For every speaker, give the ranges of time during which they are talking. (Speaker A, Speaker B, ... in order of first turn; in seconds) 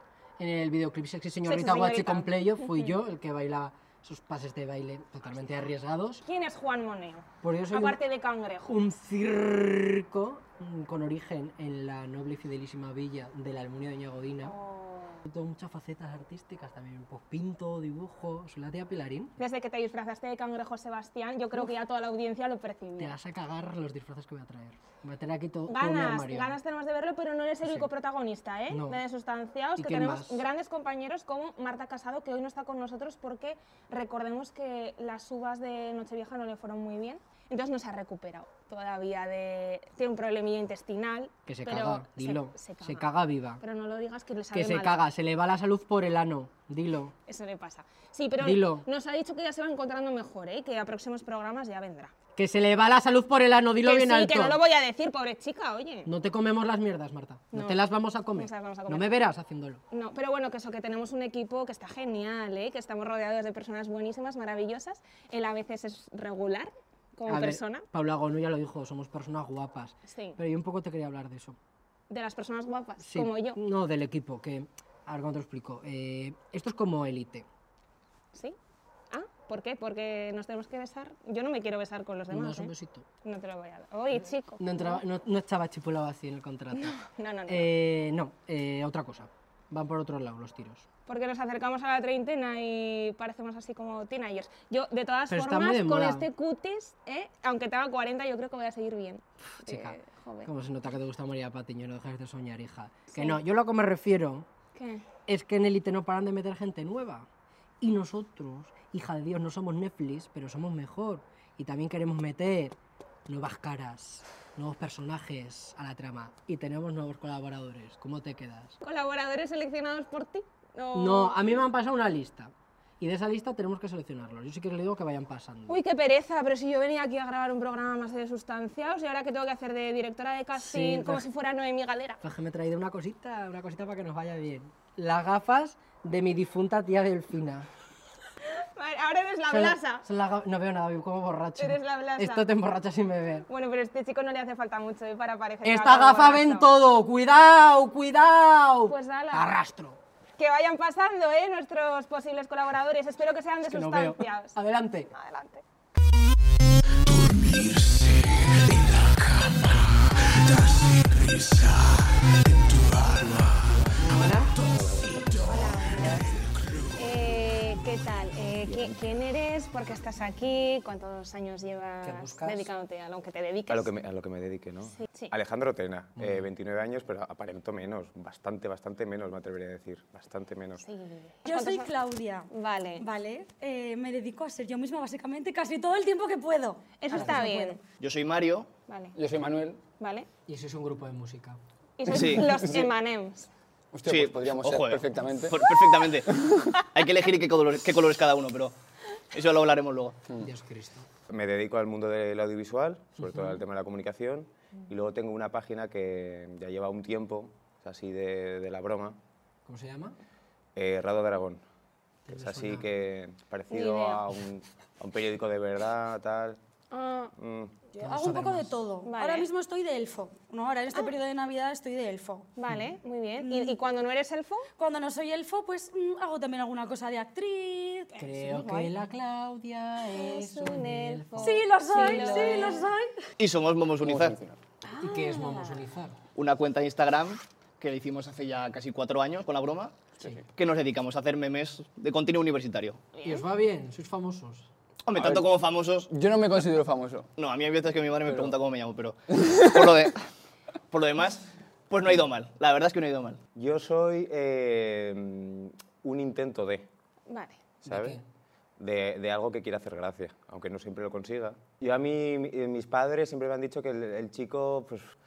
Speaker A: 0.4-6.2, 7.4-8.0, 8.6-14.6, 15.2-19.4, 23.0-26.6, 28.7-29.0, 29.8-30.4, 41.5-43.6, 44.5-47.1, 48.4-48.9, 52.4-54.6, 56.0-59.8, 67.3-71.6, 73.0-77.5, 82.3-83.1, 84.6-87.0, 87.5-90.9, 95.3-96.3, 99.5-104.5, 105.3-107.3, 107.8-112.8, 113.3-118.8, 120.9-125.8, 130.6-131.2, 132.2-137.7, 139.5-143.5, 145.6-150.0, 153.7-155.1, 157.3-157.8, 158.7-159.8, 163.9-164.6, 172.0-172.7, 176.2-176.5, 190.5-191.6, 200.4-201.1, 203.2-203.6, 209.7-210.2, 212.3-212.9, 218.0-218.8, 228.2-232.7, 235.0-236.2, 243.2-244.7, 257.9-258.2
Speaker B: 1.4-3.0, 6.2-8.8, 14.4-15.2, 19.4-23.2, 25.7-43.1, 43.6-45.0, 47.3-52.1, 53.8-56.1, 57.5-57.8, 58.3-59.1, 59.9-67.8, 70.1-70.4, 72.1-73.6, 79.1-82.7, 83.2-85.0, 86.8-87.7, 91.1-100.5, 103.1-103.4, 104.8-105.0, 118.8-121.4, 125.7-132.2, 138.6-140.1, 141.6-142.5, 143.5-146.7, 148.9-149.6, 150.4-154.6, 155.1-155.6, 165.4-166.4, 166.9-173.9, 174.9-175.3, 180.8-181.9, 182.5-183.0, 187.0-187.8, 188.9-189.2, 190.0-190.3, 192.0-193.5, 213.7-214.2, 216.9-217.3, 219.0-219.5, 222.6-224.7, 228.2-228.9, 230.1-232.9, 234.8-235.8, 243.2-243.4, 257.3-257.6
Speaker C: 164.6-165.4, 173.7-180.9, 201.3-209.2, 210.8-211.6, 212.3-216.6, 217.4-217.7, 253.6-256.9, 257.8-258.2, 258.8-265.1
Speaker D: 181.4-187.8, 217.9-222.5, 223.4-223.8, 224.8-228.2, 231.4-233.2
Speaker E: 187.9-188.7, 192.1-192.6, 194.1-196.3, 196.9-198.7, 199.3-200.2, 233.4-234.4, 236.3-243.0, 245.1-246.1, 247.4-250.2, 250.9-253.4
Speaker F: 189.2-189.8, 192.3-192.9, 193.9-196.5, 234.0-234.6, 240.2-240.4, 245.2-245.5, 246.1-247.3, 248.2-248.6, 249.5-249.9